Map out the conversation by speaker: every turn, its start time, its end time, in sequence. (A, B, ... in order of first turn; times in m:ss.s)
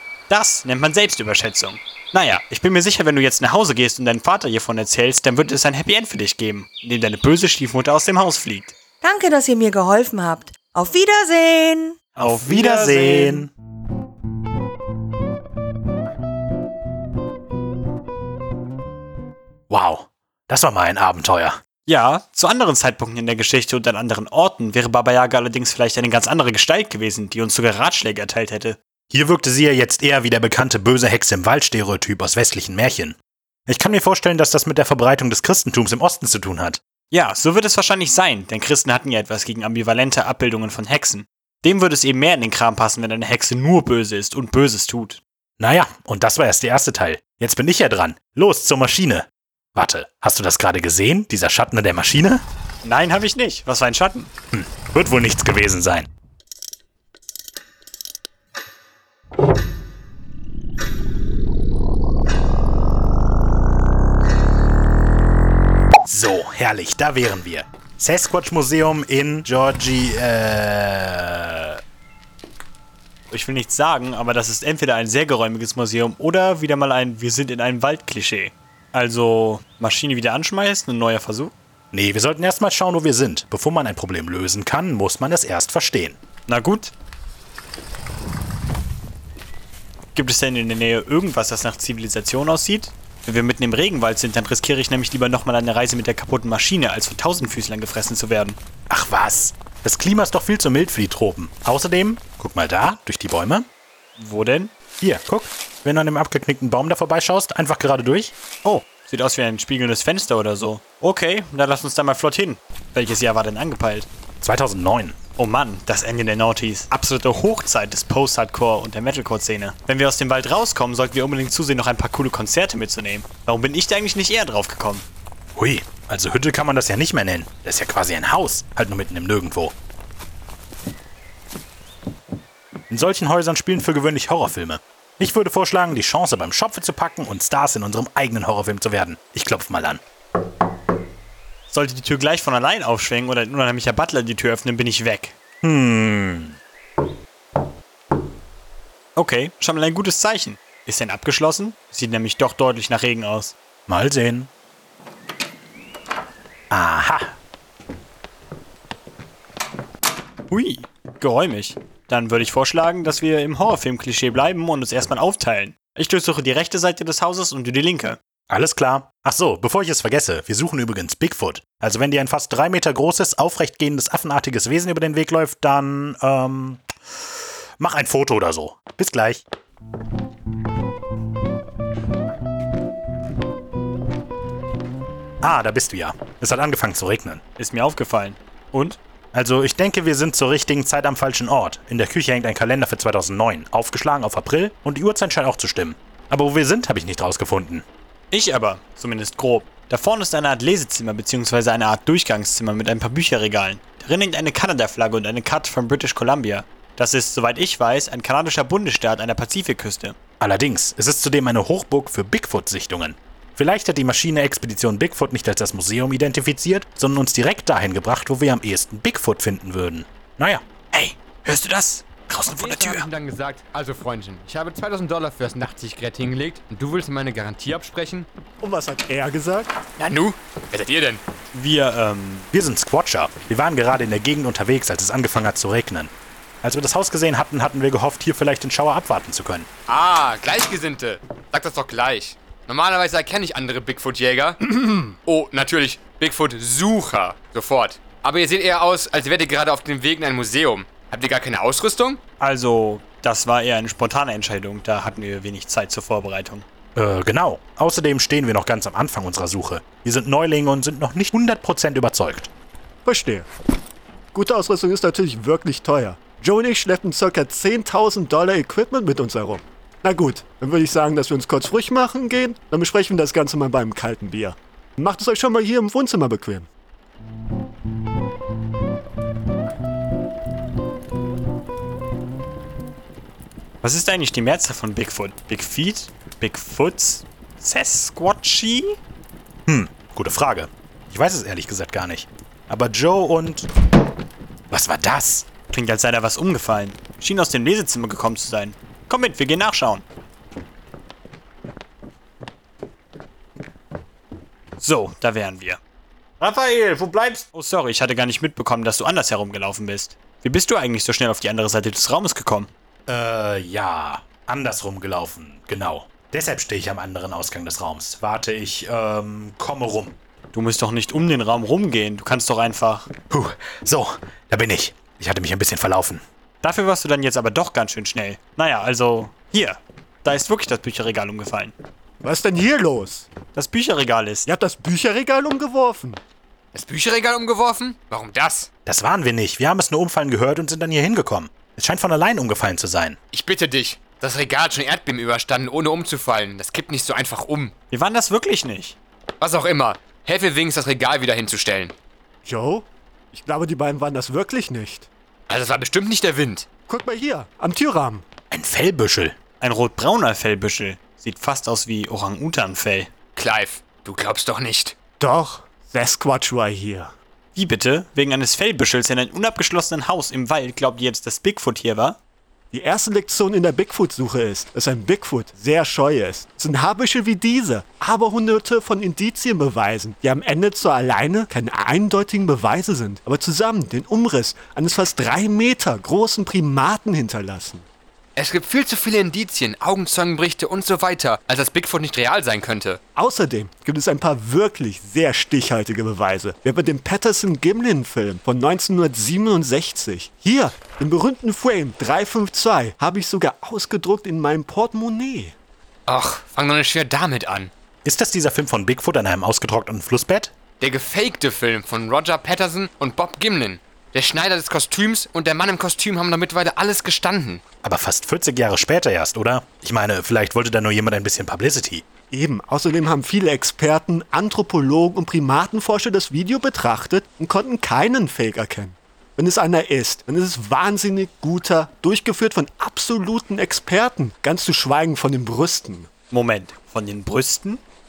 0:00.3-0:08.7 A
0:09.0-0:12.0 B
0:12.2-0:13.5 A
0:12.2-0:13.5 C
0:19.7-0:21.6 C
0:21.8-0:28.8 A
0:29.1-0:36.8 C
0:37.1-0:45.2 A
0:45.6-0:52.4 C
0:52.8-0:54.3 A
0:54.5-0:56.1 C
1:06.0-1:11.8 C
1:13.3-1:21.5 A
1:21.9-1:26.2 C
1:26.5-1:26.9 A
1:30.1-1:38.6 A
1:38.9-1:43.7 C
1:44.2-1:44.7 A
1:45.0-1:48.3 C
1:48.6-1:54.1 A
1:54.4-1:55.2 C
1:55.4-2:05.0 A
2:05.6-2:09.7 C
2:12.9-2:20.0 C
2:21.7-2:25.4 A
2:25.6-2:26.6 C
2:29.2-2:33.5 A
2:33.9-2:34.5 C
2:36.7-2:37.4 C
2:40.5-2:48.2 A
2:48.5-2:56.9 C
2:57.8-2:59.4 C
3:05.4-3:07.4 C
3:07.6-3:09.0 A
3:09.3-3:17.8 C
3:18.3-3:30.2 A
3:30.4-3:40.6 C
3:40.9-3:43.1 A
3:42.6-3:48.3 D
3:48.6-3:49.7 E
3:50.0-3:51.2 D
3:51.5-3:52.5 A
3:52.5-3:56.1 C
3:56.6-3:59.7 C
3:59.9-4:04.6 D
4:04.7-4:05.1 E
4:05.2-4:12.2 D
4:12.4-4:16.6 A
4:16.9-4:22.5 C
4:23.0-4:23.5 E
4:24.3-4:36.7 E
4:43.8-4:49.0 A
4:49.7-4:53.7 C
4:54.7-4:55.5 C
4:55.7-5:00.0 A
5:04.8-5:05.8 A
5:06.4-5:12.7 A
5:13.1-5:20.2 C
5:20.5-5:23.1 A
5:23.3-5:26.2 C
5:26.6-5:31.7 A
5:32.2-5:33.3 E
5:33.5-5:34.5 A
5:34.4-5:36.2 E
5:36.7-5:38.7 D
5:38.8-5:43.2 C
5:43.3-5:47.7 D
5:47.9-5:49.0 A
5:49.4-5:51.9 D
5:52.4-5:55.1 E
5:55.5-5:56.7 D
5:56.9-5:58.2 E
5:58.5-5:59.4 C
5:59.6-6:03.1 A
6:03.4-6:04.9 D
6:05.2-6:07.1 E
6:07.5-6:12.2 A
6:12.7-6:27.8 E
6:28.4-6:33.0 D
6:33.1-6:45.5 E
6:46.1-6:47.7 D
6:48.0-6:50.5 C
6:50.8-6:57.6 D
6:57.8-7:02.0 C
7:02.3-7:16.1 E
7:16.3-7:17.8 A